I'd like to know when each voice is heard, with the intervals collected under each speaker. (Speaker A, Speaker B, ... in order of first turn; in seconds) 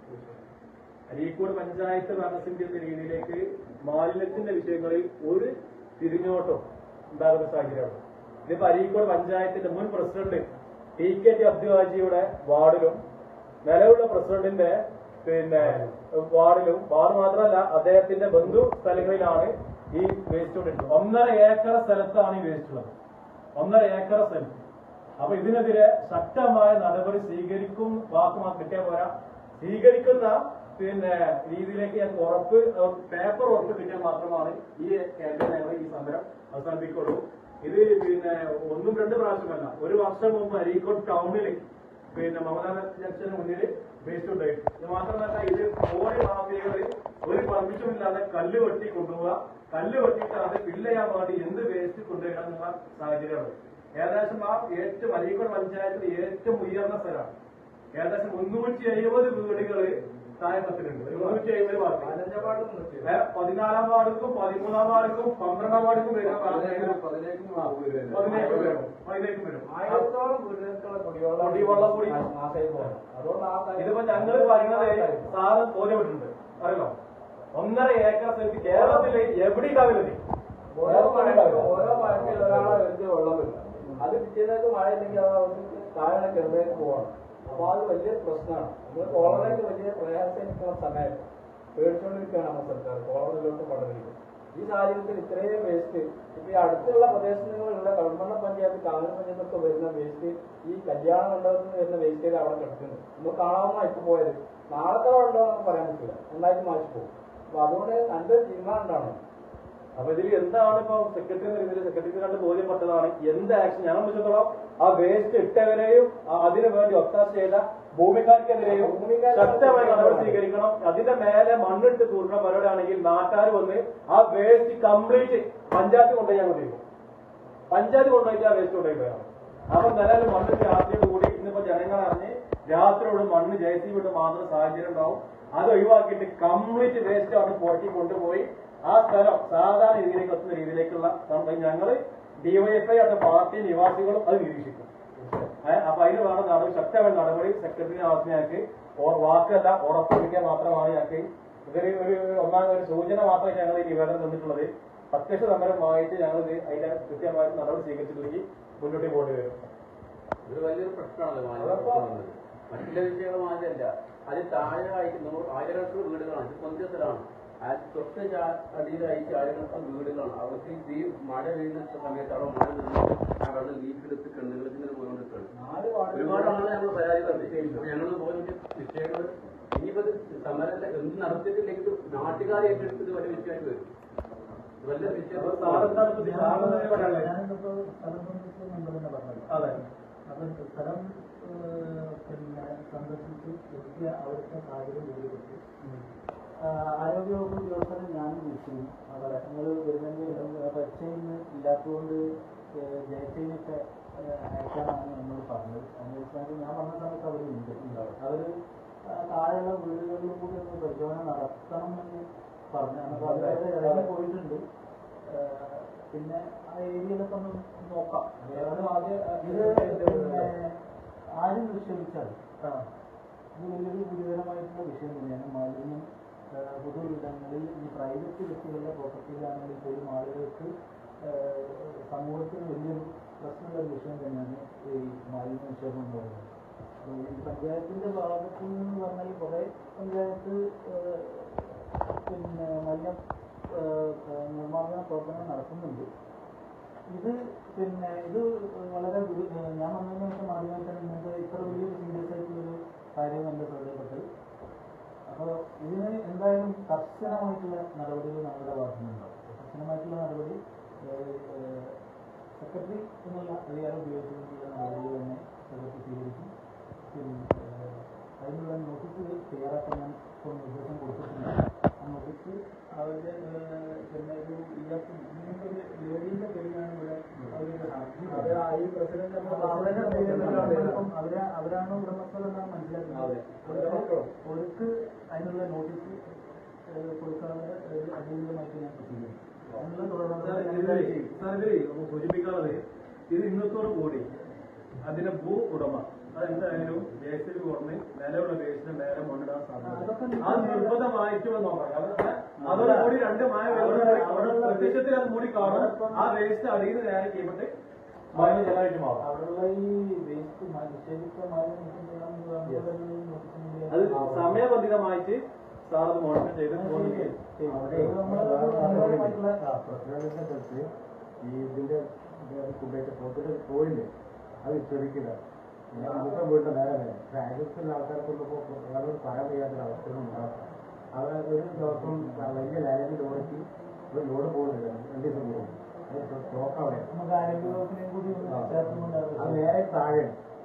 Speaker A: 1.1-10.4, 11.0-13.0, 13.6-22.9, 23.6-24.5, 25.2-57.3, 57.9-62.2, 63.0-67.0, 68.1-70.1, 71.4-72.2, 73.8-77.0, 77.5-80.2, 80.8-82.6, 110.0-126.8, 127.7-144.9, 145.4-159.6, 161.6-162.2, 185.2-187.3, 189.5-189.8, 195.8-196.1, 199.1-199.4, 213.1-214.1, 219.5-220.5, 222.6-222.9, 290.4-294.3, 295.0-307.7, 308.3-309.2, 313.9-317.4
Speaker B: 61.0-63.1, 68.2-68.7, 69.7-75.3, 78.6-79.1, 80.7-109.2, 118.6-120.4, 175.5-177.9, 218.7-219.4, 278.2-281.1, 283.1-284.3
Speaker C: 66.3-68.6, 160.4-175.5, 176.1-183.8, 184.8-185.9
Speaker D: 185.9-195.6, 196.6-202.2, 202.7-208.5, 209.1-214.6, 215.2-220.8, 221.4-222.4, 223.6-230.7, 231.2-236.5, 237.0-243.2, 243.7-246.1, 247.1-254.2, 255.3-262.0, 262.6-266.5, 267.1-278.6, 279.4-286.2, 286.9-291.3, 299.8-301.0, 302.6-303.1, 303.7-305.0, 305.5-306.4, 308.3-314.6, 316.7-320.0, 325.9-326.5, 331.8-332.6, 337.1-340.2
Speaker E: 317.6-320.9, 321.4-324.1, 324.6-325.4, 325.9-337.8, 338.4-340.4